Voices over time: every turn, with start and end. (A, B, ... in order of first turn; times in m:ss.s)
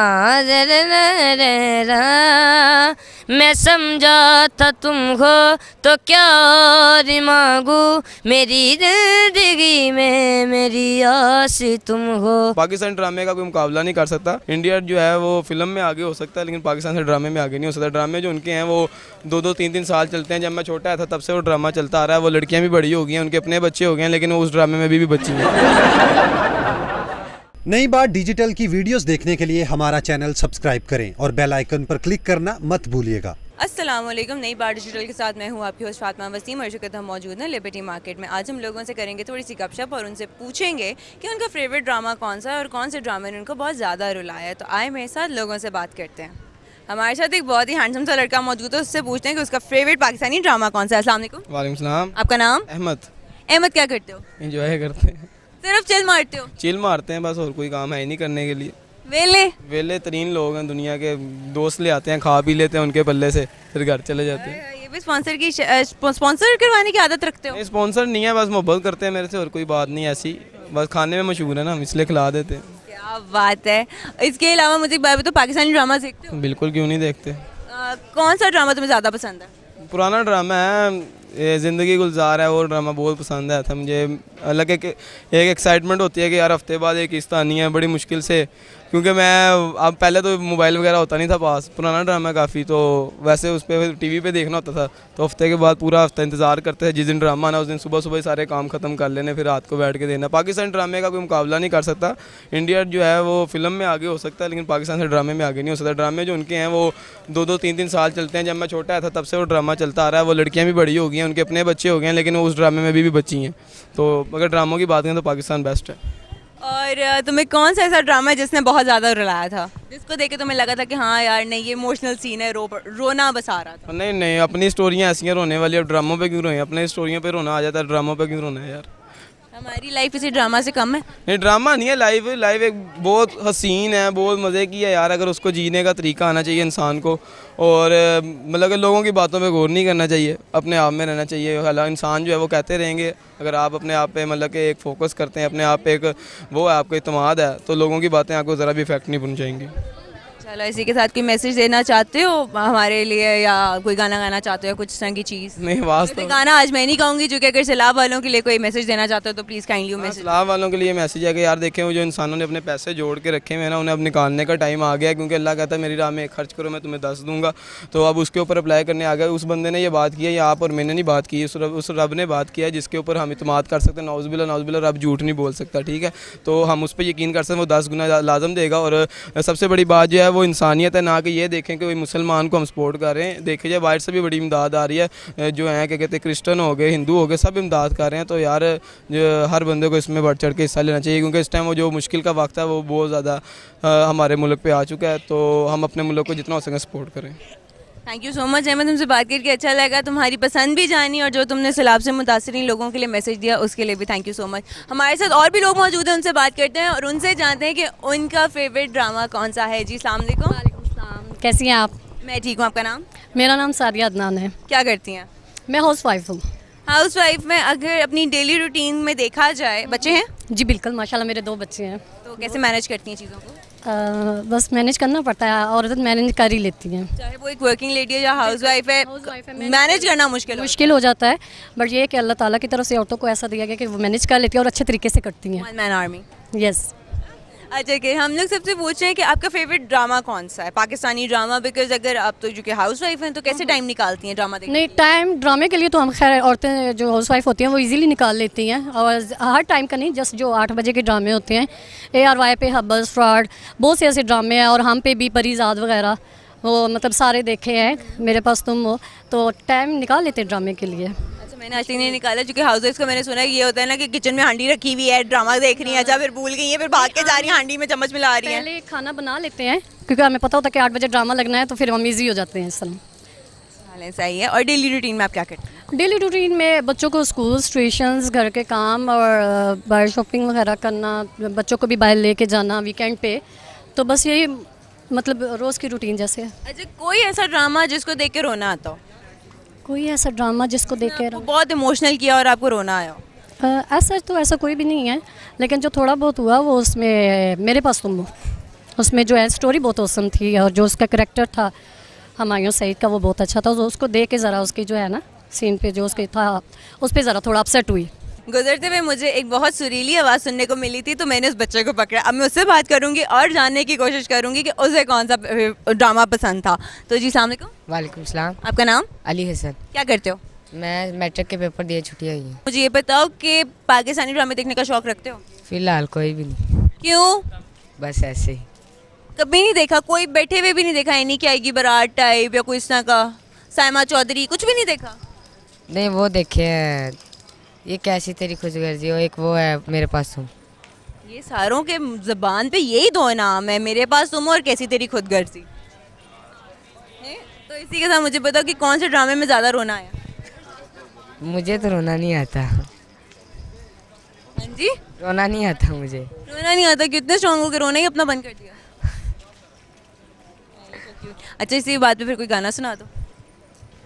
0:00.3-0:12.6 A
0:12.6-0:25.7 B
0:27.7-0:33.4 C
0:33.6-0:46.4 D
0:46.9-0:51.4 D
0:51.5-0:52.2 B
0:52.2-0:52.7 D
0:52.7-0:53.1 B
0:53.5-0:54.2 D
0:54.4-0:55.3 B
0:55.6-0:56.5 D
0:56.6-0:58.8 B
0:59.1-0:59.5 D
0:59.6-1:04.6 B
1:04.3-1:07.6 D
1:07.5-1:12.6 B
1:12.9-1:16.3 D
1:16.3-1:17.4 B
1:17.7-1:19.5 D
1:19.9-1:56.0 B
1:56.6-2:03.9 D
2:03.9-2:08.9 B
2:09.5-2:11.1 D
2:11.2-2:29.7 B
2:30.4-2:40.3 D
2:35.6-2:36.4 B
2:40.0-3:17.4 B
3:18.1-3:30.6 D
3:30.5-3:32.0 E
3:32.2-3:33.0 D
3:33.4-3:34.6 E
3:34.7-3:35.3 D
3:35.7-3:36.4 E
3:36.9-3:40.3 D
3:39.9-3:42.6 E
3:42.2-3:43.6 D
3:43.8-3:47.1 E
3:47.2-3:50.9 D
3:48.5-3:55.7 E
3:55.6-3:56.2 D
3:56.5-3:56.9 E
3:57.7-4:04.8 D
4:04.7-4:21.1 E
4:21.4-4:28.7 D
4:27.0-4:27.6 E
4:28.4-4:33.0 E
4:33.9-4:35.7 D
4:35.9-4:43.4 E
4:44.0-4:46.5 E
4:46.7-4:49.0 D
4:49.8-4:51.5 E
4:51.0-4:53.2 D
4:53.6-4:58.3 E
4:59.0-5:01.7 E
5:02.4-5:08.1 E
5:08.5-5:17.7 D
5:17.9-5:18.6 F
5:18.6-5:19.1 D
5:19.2-5:19.8 F
5:19.9-5:20.4 D
5:20.7-5:22.6 F
5:22.7-5:25.4 D
5:25.7-5:26.9 F
5:27.0-5:27.5 D
5:28.0-5:28.7 F
5:29.4-5:35.2 D
5:35.9-5:37.2 F
5:37.9-5:40.5 F
5:41.3-5:45.7 D
5:47.2-5:50.2 D
5:51.4-5:52.8 F
5:54.6-5:55.0 D
5:55.2-5:56.3 F
5:56.5-5:58.8 D
6:00.8-6:03.1 D